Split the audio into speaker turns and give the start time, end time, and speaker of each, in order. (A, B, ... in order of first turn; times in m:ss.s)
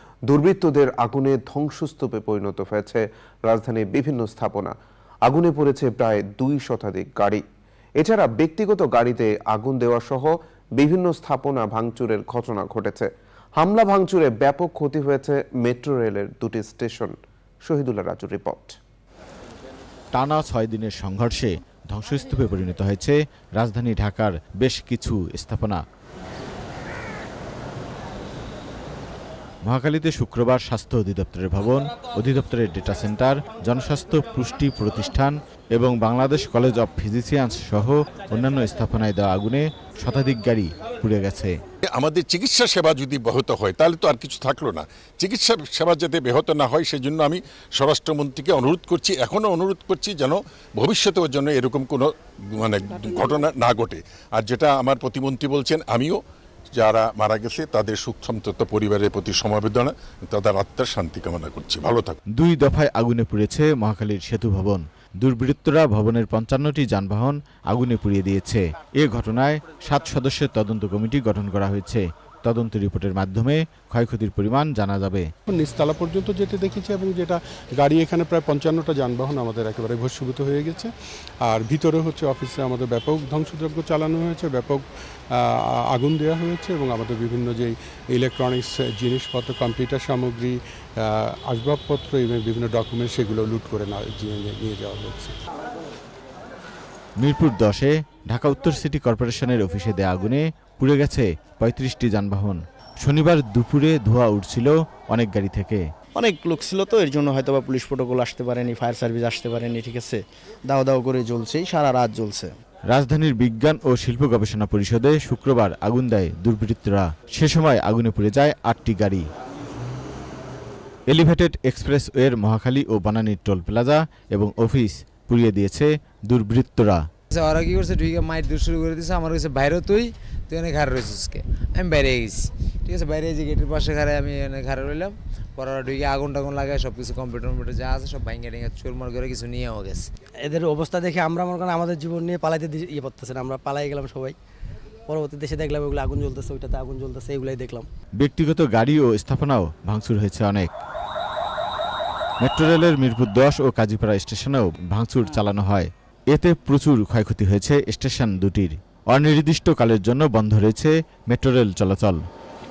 0:00.3-0:04.7 A
0:05.2-0:07.4 A
0:08.0-0:18.8 A
0:20.1-0:25.8 B
0:29.7-0:41.5 B
0:41.9-0:56.2 C
0:56.7-1:02.2 C
1:02.3-1:15.3 B
1:15.5-1:35.4 D
1:37.2-1:45.8 B
1:46.2-1:50.2 E
1:50.8-1:52.5 E
1:52.9-1:59.3 B
2:01.1-2:07.0 B
2:07.3-2:20.0 F
2:20.4-2:24.4 G
2:25.1-2:27.9 G
2:28.2-2:30.7 B
2:32.4-2:42.2 B